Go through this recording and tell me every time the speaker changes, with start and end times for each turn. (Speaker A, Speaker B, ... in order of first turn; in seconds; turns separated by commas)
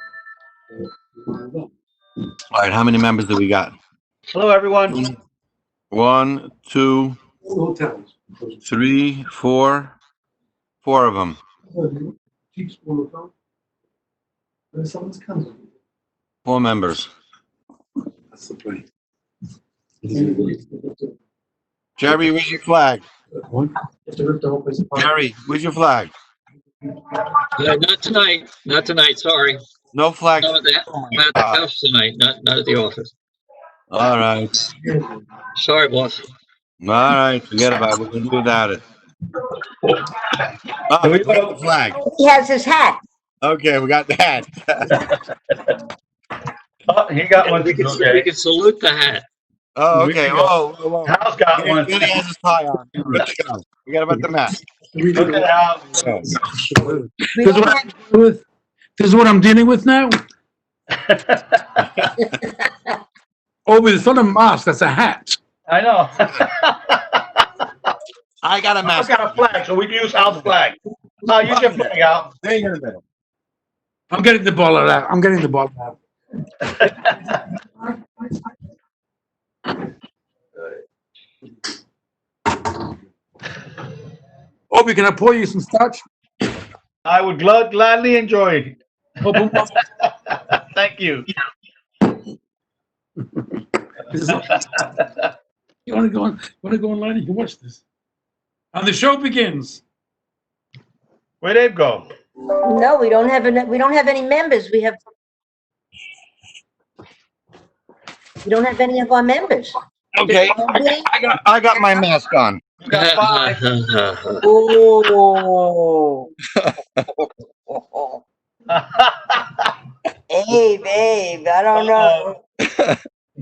Speaker A: 1.2-1.7, Speaker B: 2.5-3.8, Speaker C: 4.3-5.0, Speaker B: 5.9-7.2, Speaker A: 7.5-8.6, Speaker B: 8.7-9.9, Speaker B: 10.8-11.4, Speaker A: 11.7-13.3, Speaker A: 14.7-15.6, Speaker B: 16.4-17.1, Speaker A: 18.3-18.8, Speaker A: 20.0-20.6, Speaker B: 22.0-23.1, Speaker A: 23.4-25.1, Speaker B: 24.9-26.1, Speaker D: 27.5-29.6, Speaker B: 29.9-31.6, Speaker D: 30.4-33.1, Speaker B: 33.9-34.5, Speaker D: 35.5-36.2, Speaker B: 36.8-38.8, Speaker B: 40.9-42.0, Speaker C: 41.0-41.6, Speaker E: 41.9-43.0, Speaker B: 43.4-45.0, Speaker C: 46.9-48.3, Speaker D: 47.4-49.2, Speaker B: 49.8-54.5, Speaker C: 49.9-52.1, Speaker A: 54.9-55.5, Speaker C: 55.1-56.2, Speaker B: 55.9-56.2, Speaker A: 56.5-58.4, Speaker E: 57.4-57.8, Speaker A: 59.0-60.2, Speaker C: 61.0-61.8, Speaker A: 63.7-65.4, Speaker C: 65.7-67.4, Speaker B: 68.4-69.4, Speaker C: 68.8-72.3, Speaker B: 71.4-73.0, Speaker A: 74.1-76.0, Speaker C: 76.6-77.1, Speaker A: 84.7-86.0, Speaker C: 87.0-91.2, Speaker A: 89.2-89.8, Speaker A: 94.1-94.8, Speaker C: 94.3-95.2, Speaker A: 95.8-97.8, Speaker A: 98.7-99.8, Speaker C: 101.4-102.1, Speaker E: 102.6-105.0, Speaker E: 108.4-109.7, Speaker B: 110.2-110.7, Speaker E: 110.2-111.1, Speaker B: 111.2-112.6, Speaker E: 111.7-112.0, Speaker C: 112.8-113.7, Speaker D: 112.9-114.4, Speaker E: 114.4-116.3, Speaker B: 116.5-117.2, Speaker E: 117.7-118.2, Speaker C: 118.7-119.7, Speaker E: 120.3-122.4, Speaker C: 121.7-122.3, Speaker B: 122.6-123.0